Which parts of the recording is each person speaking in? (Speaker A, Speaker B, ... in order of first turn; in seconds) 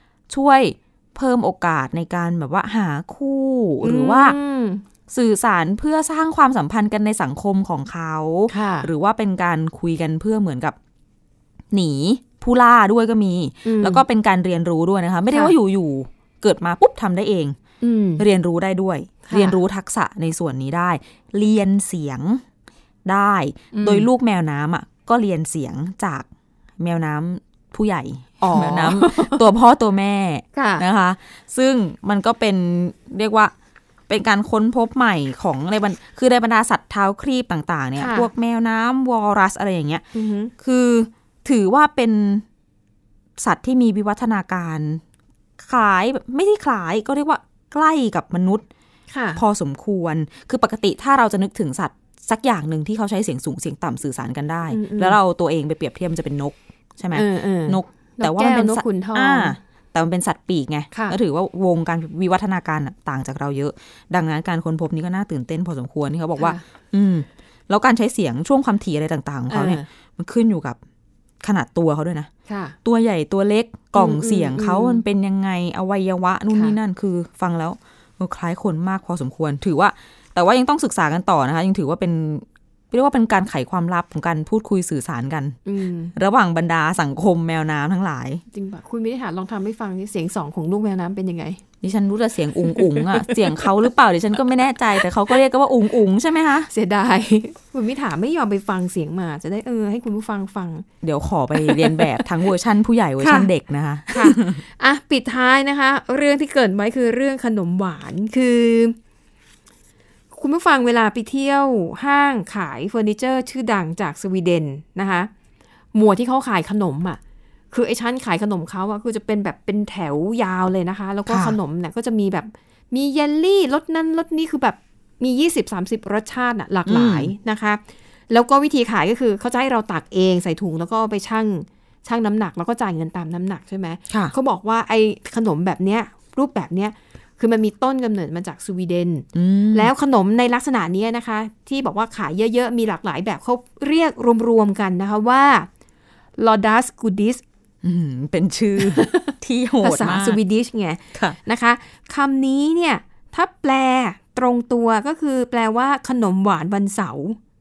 Speaker A: 0.3-4.3, 5.1-10.8, 11.7-17.6, 18.2-22.4, 23.0-26.3, 26.8-33.5, 34.1-40.0, 40.6-42.4, 43.4-45.0, 45.6-48.6, 49.4-70.8, 71.4-72.3, 72.8-85.6, 86.1-88.4, 91.8-96.7, 101.0-104.6, 121.3-121.5, 126.8-127.3, 139.3-139.9, 147.8-150.4
Speaker B: 3.8-4.8, 8.5-8.9, 13.6-14.0, 15.3-15.5, 17.8-18.2, 19.2-19.6, 23.7-24.1, 28.4-29.4, 30.5-30.8, 38.0-38.3, 40.1-40.5, 49.1-49.4, 54.7-55.2, 57.1-59.6, 60.9-61.2, 66.4-66.6, 69.5-69.8, 72.5-72.8, 73.9-75.0, 85.7-86.1, 88.5-91.6, 92.7-93.7, 96.7-100.8, 101.5-102.2, 103.2-103.5, 104.1-109.0, 110.3-115.3, 115.9-117.2, 117.7-145.7, 146.4-147.4, 148.8-157.4